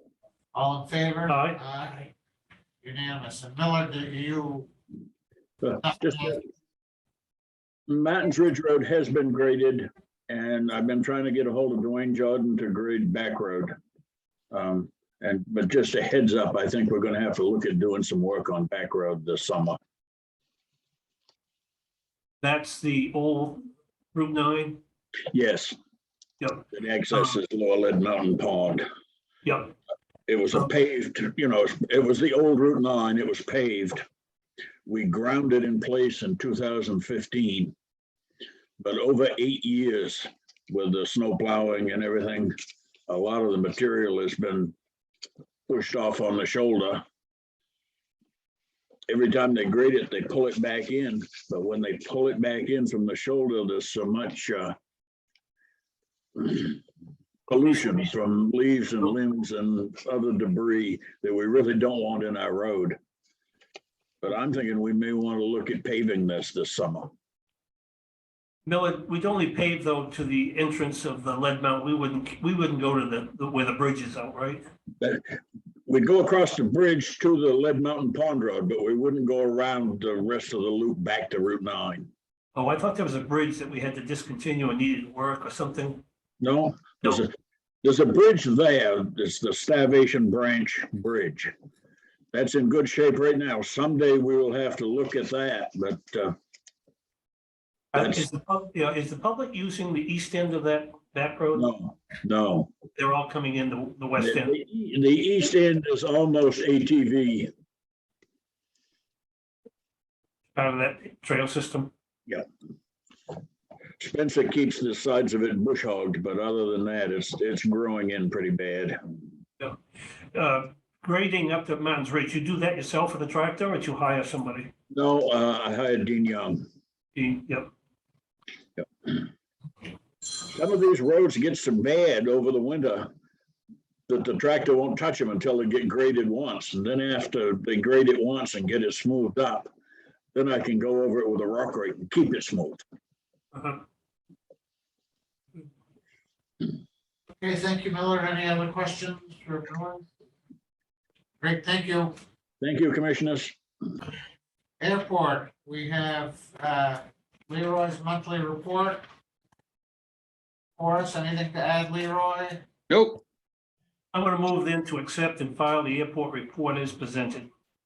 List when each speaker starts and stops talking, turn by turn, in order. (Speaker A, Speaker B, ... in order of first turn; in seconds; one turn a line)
Speaker A: 0.5-2.1
Speaker B: 1.3-1.6
Speaker A: 2.8-4.7
Speaker C: 5.6-6.4
Speaker A: 5.7-6.4
Speaker C: 7.9-13.8
Speaker C: 14.5-19.8
Speaker B: 22.4-24.8
Speaker C: 25.3-25.8
Speaker B: 26.4-27.4
Speaker C: 26.7-28.9
Speaker B: 29.4-29.7
Speaker C: 30.3-34.0
Speaker C: 34.9-37.7
Speaker C: 38.8-42.5
Speaker C: 43.1-44.8
Speaker C: 45.7-47.0
Speaker C: 49.1-54.8
Speaker C: 56.4-56.8
Speaker C: 57.5-63.0
Speaker C: 64.2-67.1
Speaker B: 68.7-74.7
Speaker C: 75.0-75.3
Speaker C: 75.9-82.1
Speaker B: 82.5-86.0
Speaker C: 86.4-87.3
Speaker C: 87.8-91.5
Speaker C: 92.3-96.4
Speaker B: 97.9-101.7
Speaker C: 98.0-98.3
Speaker C: 101.5-102.7
Speaker B: 103.0-104.5
Speaker C: 104.2-107.5
Speaker B: 110.5-111.9
Speaker C: 114.0-119.0
Speaker B: 120.3-124.7
Speaker C: 124.9-126.7
Speaker B: 127.1-127.7
Speaker C: 130.6-133.1
Speaker C: 134.1-139.7
Speaker C: 140.3-142.8
Speaker B: 143.5-143.8
Speaker A: 147.4-150.0
Speaker A: 151.4-152.2
Speaker C: 152.6-153.6
Speaker A: 154.8-159.0
Speaker A: 160.8-162.7
Speaker C: 162.9-163.2
Speaker B: 164.1-167.5